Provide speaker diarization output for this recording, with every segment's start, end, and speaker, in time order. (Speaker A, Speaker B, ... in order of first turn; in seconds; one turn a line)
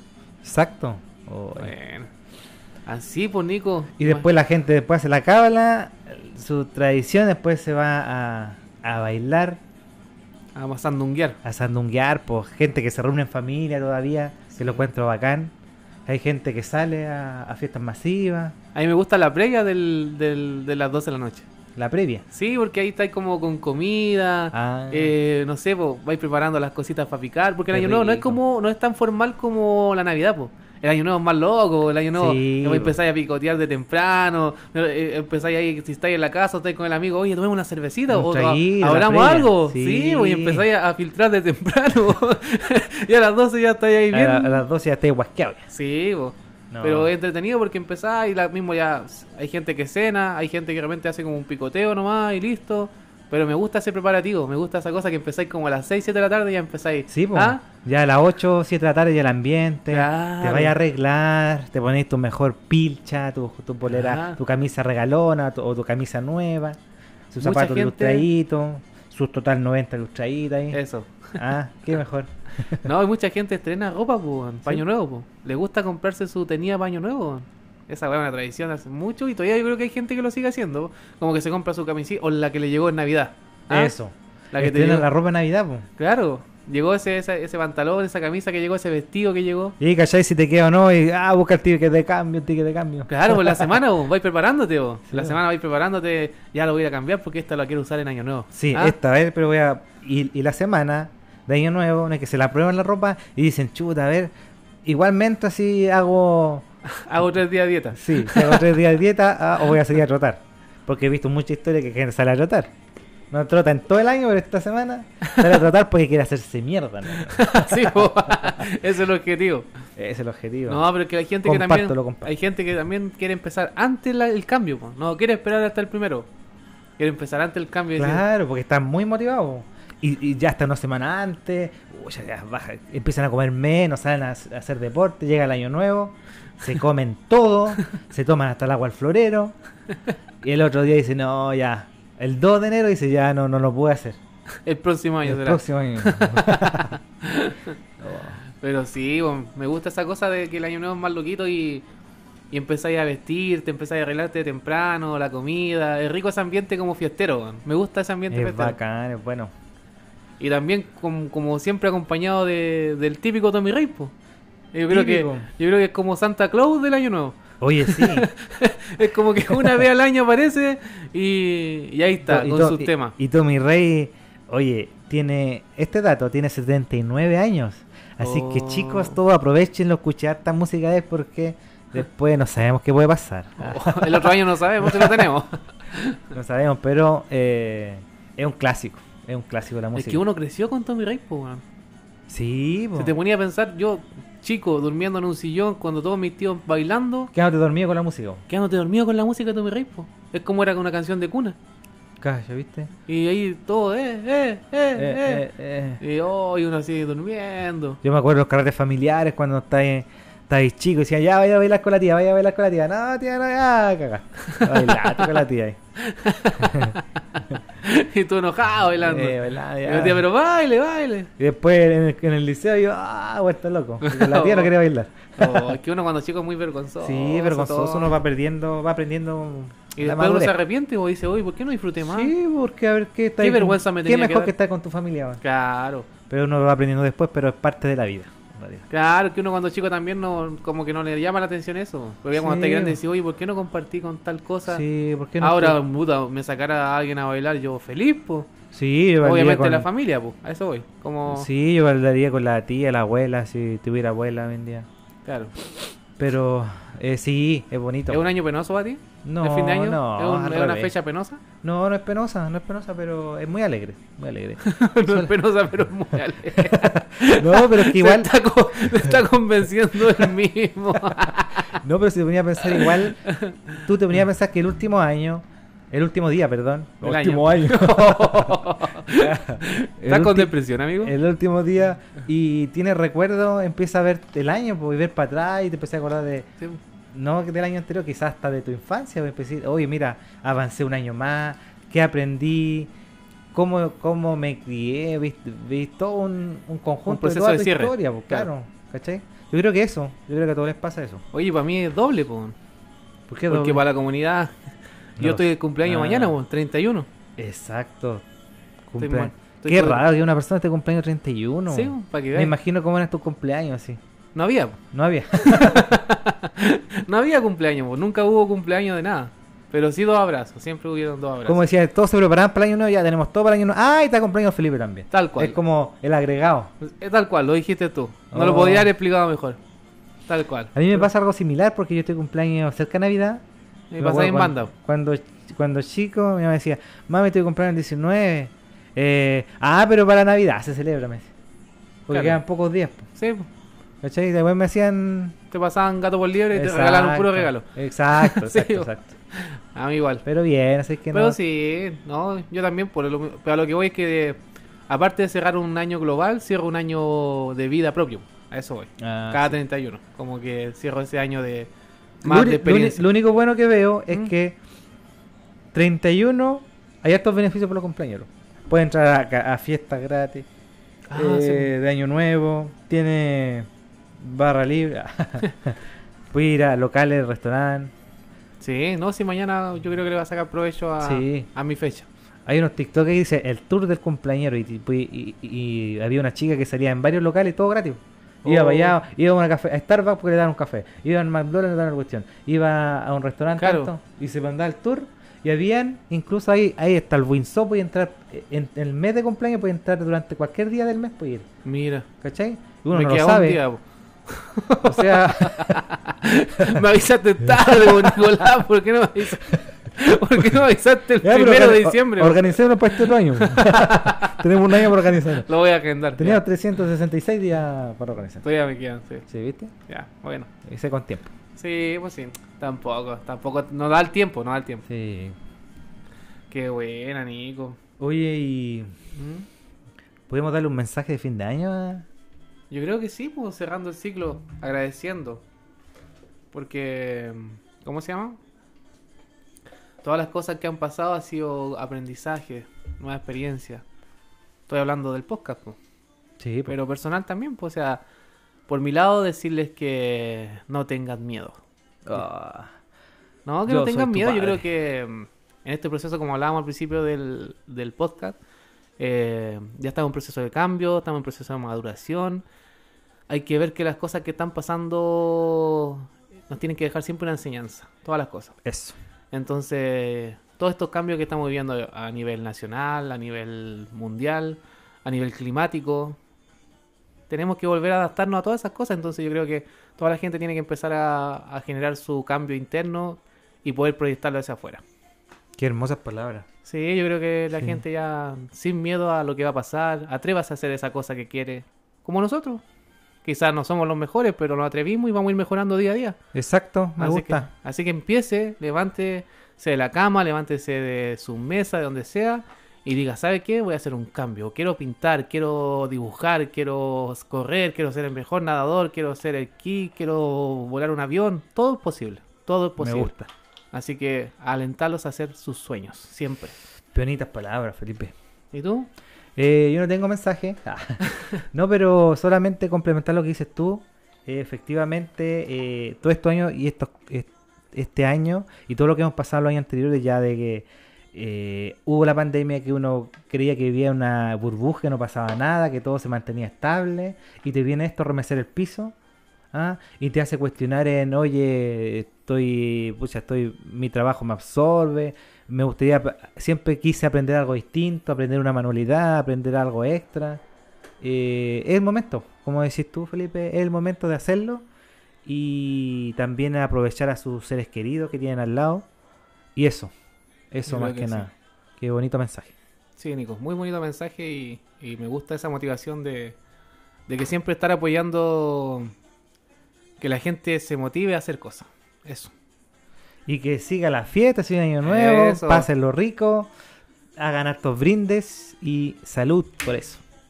Speaker A: 0.4-1.7
Speaker B: 1.6-2.1
Speaker B: 2.9-4.3
Speaker A: 4.0-9.6
Speaker B: 10.6-11.4
Speaker A: 11.4-15.5
Speaker B: 14.6-14.8
Speaker A: 16.1-18.6
Speaker B: 18.8-21.5
Speaker A: 21.8-22.2
Speaker B: 22.3-44.6
Speaker A: 24.5-25.1
Speaker A: 27.7-28.4
Speaker A: 32.1-33.0
Speaker A: 38.1-40.6
Speaker A: 44.1-45.7
Speaker B: 45.7-57.6
Speaker A: 46.7-47.1
Speaker A: 57.1-66.8
Speaker B: 59.9-60.8
Speaker B: 63.9-64.4
Speaker A: 67.3-70.8
Speaker B: 67.4-68.3
Speaker B: 70.7-71.4
Speaker A: 71.4-72.9
Speaker B: 72.8-83.9
Speaker A: 83.7-85.9
Speaker B: 84.5-85.1
Speaker B: 86.0-89.8
Speaker A: 89.8-93.8
Speaker B: 93.1-99.0
Speaker A: 95.1-95.4
Speaker A: 98.5-104.3
Speaker A: 104.8-106.7
Speaker B: 106.9-108.6
Speaker A: 107.9-112.7
Speaker A: 113.3-118.7
Speaker B: 115.2-115.5
Speaker B: 117.2-119.7
Speaker A: 120.0-120.9
Speaker B: 120.7-126.3
Speaker A: 121.4-122.3
Speaker B: 127.0-128.2
Speaker A: 128.0-139.6
Speaker A: 140.4-144.2
Speaker B: 144.7-147.8
Speaker A: 145.2-147.0
Speaker A: 148.0-148.4
Speaker B: 148.6-151.8
Speaker B: 152.5-158.8
Speaker A: 158.3-159.5
Speaker B: 160.4-164.1
Speaker B: 164.7-173.2
Speaker A: 164.9-165.5
Speaker A: 167.6-168.3
Speaker A: 169.5-169.8
Speaker A: 172.3-185.3
Speaker B: 178.2-179.2
Speaker B: 183.6-186.2
Speaker A: 186.3-190.2
Speaker B: 189.9-191.6
Speaker A: 192.3-193.1
Speaker B: 193.0-197.3
Speaker A: 197.3-198.4
Speaker B: 198.5-201.6
Speaker A: 202.2-202.9
Speaker B: 203.1-205.4
Speaker A: 205.0-206.0
Speaker B: 206.0-208.0
Speaker A: 208.0-215.8
Speaker B: 214.5-215.3
Speaker B: 216.0-221.3
Speaker A: 216.6-217.0
Speaker A: 219.0-220.2
Speaker A: 221.4-225.8
Speaker B: 224.0-224.7
Speaker B: 225.4-228.2
Speaker A: 227.0-230.6
Speaker B: 230.0-232.3
Speaker A: 232.1-235.4
Speaker B: 233.4-234.5
Speaker B: 235.4-236.1
Speaker A: 236.3-238.8
Speaker B: 238.9-244.8
Speaker A: 242.4-243.0
Speaker A: 244.7-245.8
Speaker B: 245.4-248.5
Speaker A: 248.7-249.9
Speaker B: 249.2-251.5
Speaker A: 251.3-254.9
Speaker B: 255.2-255.5
Speaker A: 256.2-258.3
Speaker B: 258.1-261.4
Speaker A: 259.2-260.9
Speaker A: 261.6-265.3
Speaker B: 264.6-271.8
Speaker A: 266.5-269.1
Speaker A: 271.8-273.2
Speaker B: 272.6-273.8
Speaker A: 273.8-286.5
Speaker B: 277.0-281.1
Speaker A: 287.1-292.9
Speaker A: 293.5-301.2
Speaker B: 297.1-298.5
Speaker B: 301.3-302.6
Speaker A: 303.3-303.8
Speaker B: 303.5-304.5
Speaker A: 305.2-306.4
Speaker B: 305.2-307.1
Speaker A: 307.4-308.2
Speaker A: 308.9-314.0
Speaker B: 309.0-310.0
Speaker B: 311.7-312.5
Speaker B: 314.4-314.8
Speaker A: 314.9-316.0
Speaker B: 315.4-321.6
Speaker A: 321.5-326.7
Speaker B: 325.1-325.6
Speaker B: 326.8-329.6
Speaker A: 328.3-328.9
Speaker B: 330.3-331.1
Speaker A: 330.8-333.4
Speaker B: 333.9-334.7
Speaker A: 334.0-341.3
Speaker A: 342.1-343.1
Speaker B: 342.1-342.4
Speaker B: 343.2-343.5
Speaker A: 344.0-345.4
Speaker B: 345.5-350.2
Speaker A: 346.5-349.1
Speaker A: 350.2-351.4
Speaker B: 351.1-361.7
Speaker A: 359.0-359.6
Speaker B: 362.2-363.1
Speaker A: 362.2-364.6
Speaker A: 365.7-370.5
Speaker B: 371.1-371.7
Speaker A: 371.1-375.8
Speaker A: 376.3-377.9
Speaker B: 378.6-382.1
Speaker A: 381.0-381.5
Speaker A: 382.5-401.5
Speaker B: 388.4-389.0
Speaker B: 393.6-393.9
Speaker B: 401.6-402.1
Speaker A: 402.2-403.6
Speaker B: 402.9-416.4
Speaker A: 404.8-405.8
Speaker A: 407.6-408.1
Speaker A: 411.2-415.5
Speaker A: 416.2-418.4
Speaker B: 418.4-419.3
Speaker A: 419.3-419.7
Speaker B: 419.9-420.5
Speaker A: 420.6-421.3
Speaker B: 421.6-424.9
Speaker A: 424.9-425.4
Speaker B: 426.5-427.8
Speaker A: 428.0-428.9
Speaker B: 429.1-429.5
Speaker A: 430.3-432.1
Speaker B: 432.7-435.4
Speaker B: 436.5-438.4
Speaker B: 440.0-443.8
Speaker B: 444.7-445.8
Speaker A: 446.4-446.7
Speaker B: 446.7-448.0
Speaker B: 448.7-451.6
Speaker A: 452.1-452.7
Speaker B: 453.5-458.4
Speaker A: 453.7-454.7
Speaker B: 459.0-462.4
Speaker B: 463.3-468.6
Speaker A: 468.6-469.0
Speaker B: 469.3-476.2
Speaker B: 477.3-484.8
Speaker A: 485.6-486.5
Speaker B: 486.6-492.6
Speaker A: 487.6-487.8
Speaker B: 493.2-496.2
Speaker A: 496.3-497.5
Speaker B: 497.0-513.1
Speaker A: 512.8-513.3
Speaker B: 513.7-516.6
Speaker A: 516.9-518.1
Speaker B: 518.5-518.9
Speaker A: 519.4-539.0
Speaker A: 539.5-550.4
Speaker A: 551.0-554.6
Speaker A: 555.2-558.9
Speaker A: 559.5-559.9
Speaker A: 560.5-562.5
Speaker B: 560.7-561.3
Speaker B: 563.0-566.4
Speaker B: 567.1-568.9
Speaker B: 570.0-572.3
Speaker A: 573.3-576.5
Speaker B: 574.8-575.7
Speaker A: 577.2-580.0